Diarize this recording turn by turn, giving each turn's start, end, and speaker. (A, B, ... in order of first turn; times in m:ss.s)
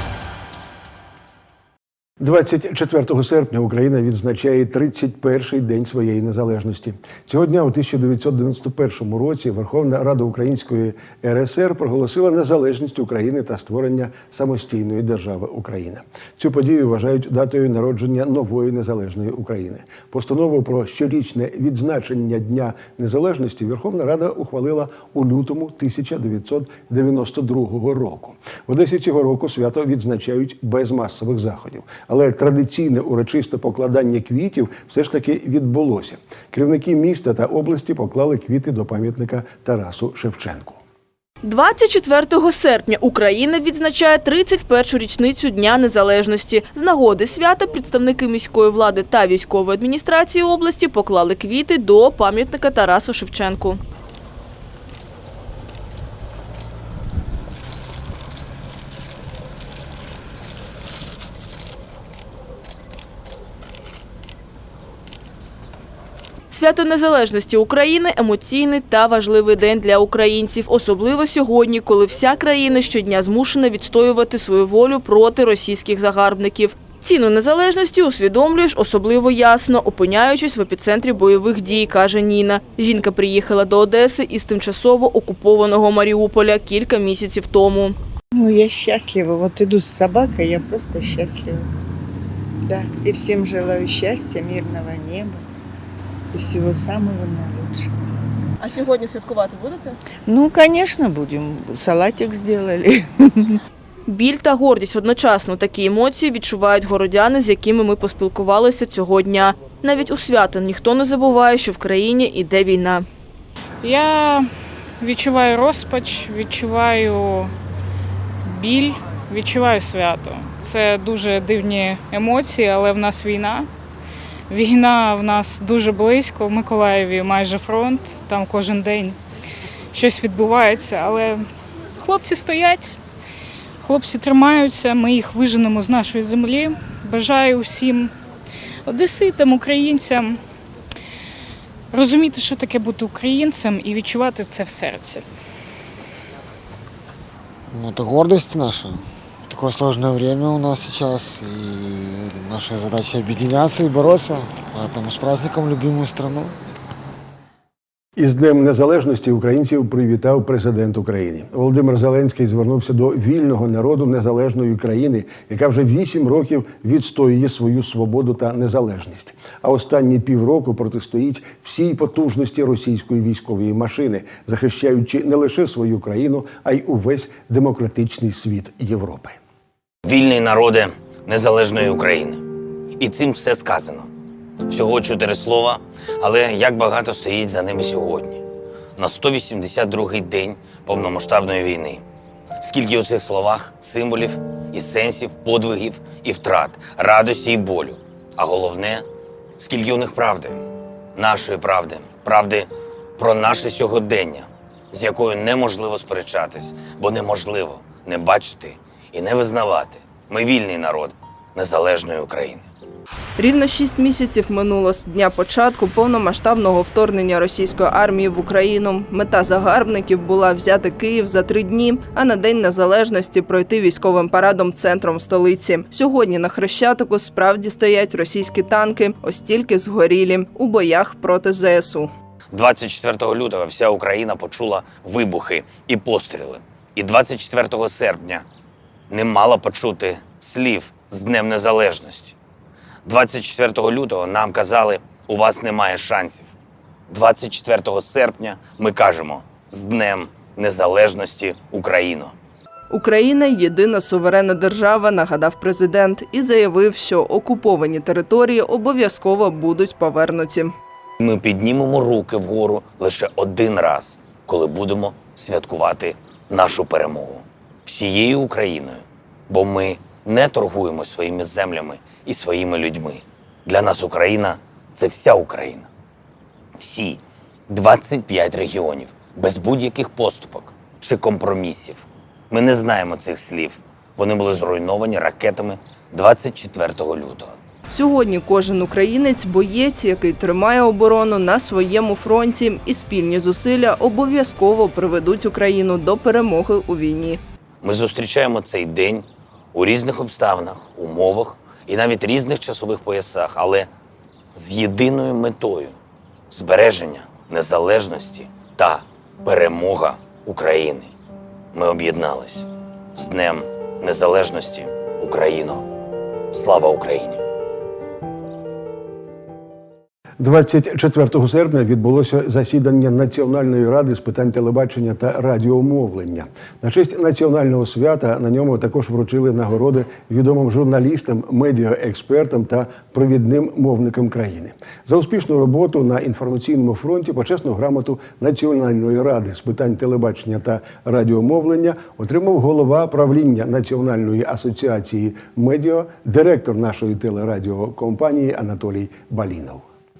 0:02.2-0:40.8 A
0:41.4-0:53.8 B
1:06.5-1:28.0 B
1:28.3-1:31.7 C
1:32.6-1:35.4 C
1:36.3-1:37.9 C
1:40.2-1:43.6 C
1:44.1-1:53.0 B
1:53.8-1:54.5 D
1:55.0-1:57.5 D
1:58.4-2:03.7 D
2:04.5-2:09.2 D
2:09.9-2:11.5 D
2:12.0-2:13.0 D
2:13.8-2:18.1 D
2:18.8-2:20.4 D
2:21.9-2:25.2 D
2:27.7-2:36.5 E
2:38.2-2:59.4 A
3:00.0-3:02.4 F
3:03.0-3:04.1 F
3:04.6-3:08.4 F
3:09.0-3:12.0 F
3:12.6-3:19.0 F
3:19.6-3:32.6 F
3:33.4-3:52.1 G
3:52.5-3:58.4 F
3:59.1-4:02.4 F
4:03.0-4:06.5 F
4:07.1-4:12.3 F
4:12.9-4:20.7 G
4:21.2-4:35.9 F
4:36.8-4:47.6 F
4:47.9-4:57.4 G
4:57.8-5:03.9 F
5:04.5-5:06.0 F
5:06.5-5:11.1 F
5:11.7-5:15.8 F
5:16.5-5:17.4 F
5:20.4-5:49.8 A